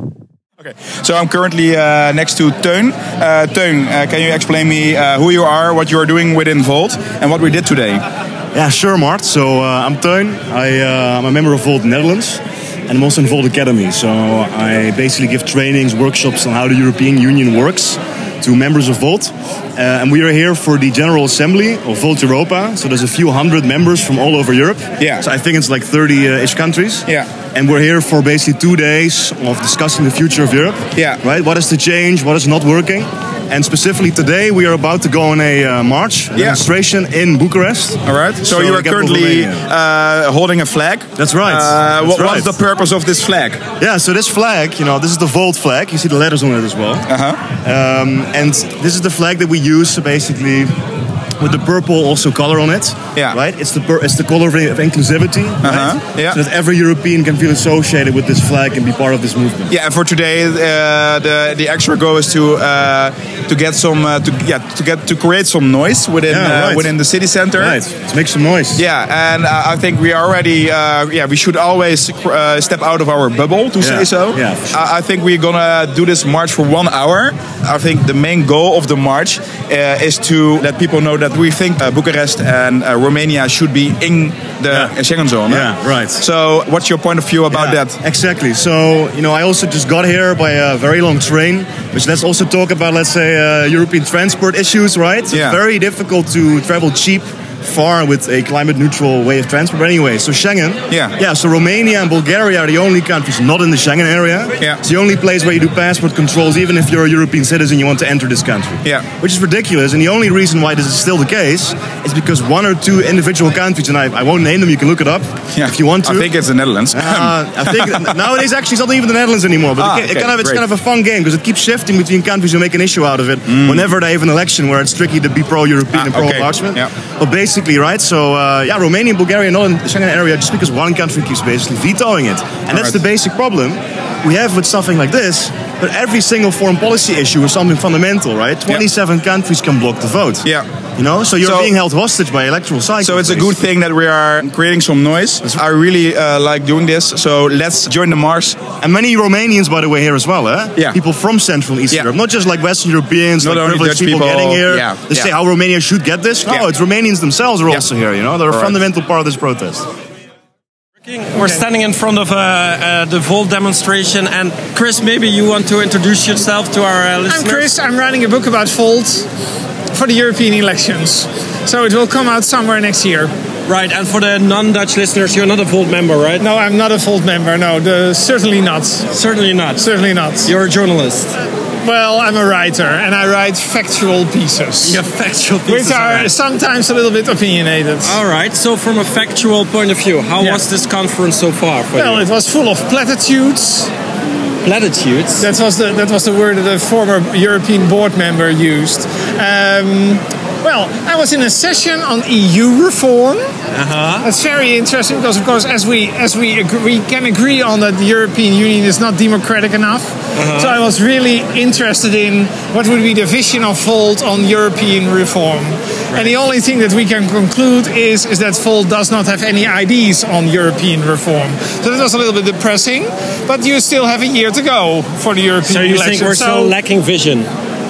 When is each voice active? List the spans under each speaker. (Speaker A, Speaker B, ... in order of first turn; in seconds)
Speaker A: 0.6-8.0, 25.0-25.2, 27.1-27.3, 30.9-31.2, 36.3-36.6, 38.0-43.6, 47.1-47.4, 55.6-56.4, 59.7-67.8, 68.8-88.0, 95.3-95.6, 100.9-101.2, 115.5-118.2, 119.8-120.6, 123.5-123.9, 125.9-126.9, 132.7-133.0, 141.4-141.7, 143.0-148.6, 153.4-155.3, 158.5-158.8
Speaker B: 8.5-39.6, 41.2-42.5, 43.8-47.1, 47.6-50.8, 51.4-59.7, 66.3-66.9, 67.5-68.8, 73.8-74.7, 85.5-86.2, 87.5-116.3, 116.9-140.4, 141.0-143.5, 148.8-159.9
Speaker C: 161.0-167.7, 173.7-176.4, 179.1-179.8, 180.4-181.3, 184.8-186.3, 188.0-192.2, 194.6-195.5, 203.7-204.3, 210.3-210.8, 225.7-227.5
Speaker D: 161.4-161.6, 167.3-169.3, 169.9-173.3, 176.4-179.1, 179.8-180.5, 181.8-185.0, 185.7-188.2, 191.9-193.9, 195.4-203.5, 204.2-226.7